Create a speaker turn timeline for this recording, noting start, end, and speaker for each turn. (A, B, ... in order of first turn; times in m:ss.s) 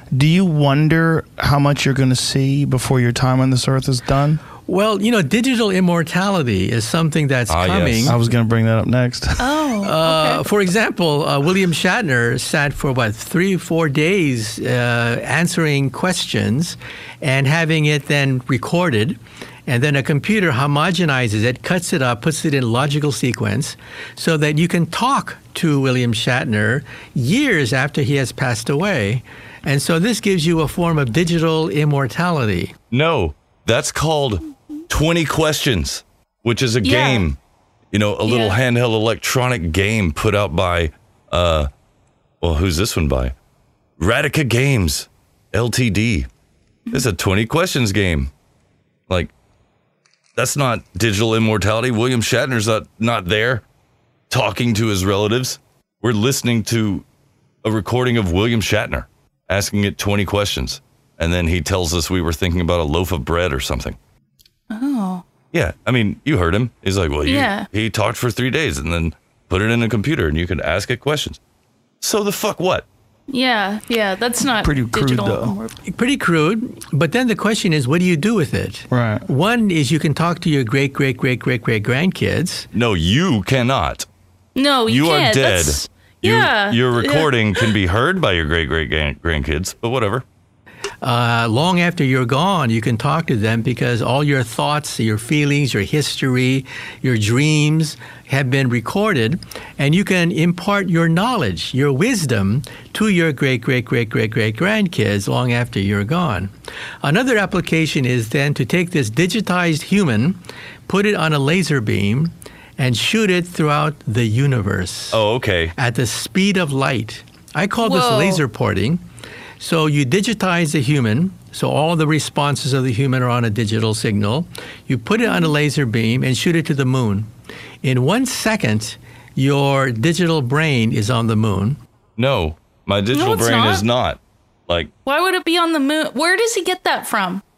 0:00.1-0:04.4 A
0:04.6-0:08.2 B
0:07.5-0:08.2 C
0:08.1-0:09.4 A
0:09.4-0:10.4 D
0:09.8-0:32.7 B
0:32.9-0:37.4 C
0:36.8-0:37.2 D
0:37.9-0:41.7 C
0:38.2-0:38.6 D
0:42.4-0:43.3 C
0:44.0-0:46.3 C
0:46.9-0:48.3 C
0:50.3-0:53.6 C
0:54.3-0:57.0 C
0:57.6-1:04.0 C
1:04.7-1:05.2 D
1:05.5-1:11.4 C
1:07.2-1:07.6 D
1:12.0-1:12.8 C
1:13.3-1:15.7 D
1:14.6-1:15.6 A
1:15.9-1:22.7 B
1:18.9-1:19.2 A
1:22.7-1:24.0 C
1:24.6-1:27.7 D
1:24.9-1:30.2 C
1:31.0-1:46.5 B
1:47.0-1:55.2 B
1:55.1-1:55.7 C
1:55.8-1:59.0 B
1:57.8-1:58.4 D
1:59.6-2:07.3 B
2:05.2-2:05.5 D
2:07.8-2:11.8 B
2:12.2-2:14.9 C
2:13.1-2:13.8 D
2:15.0-2:17.4 D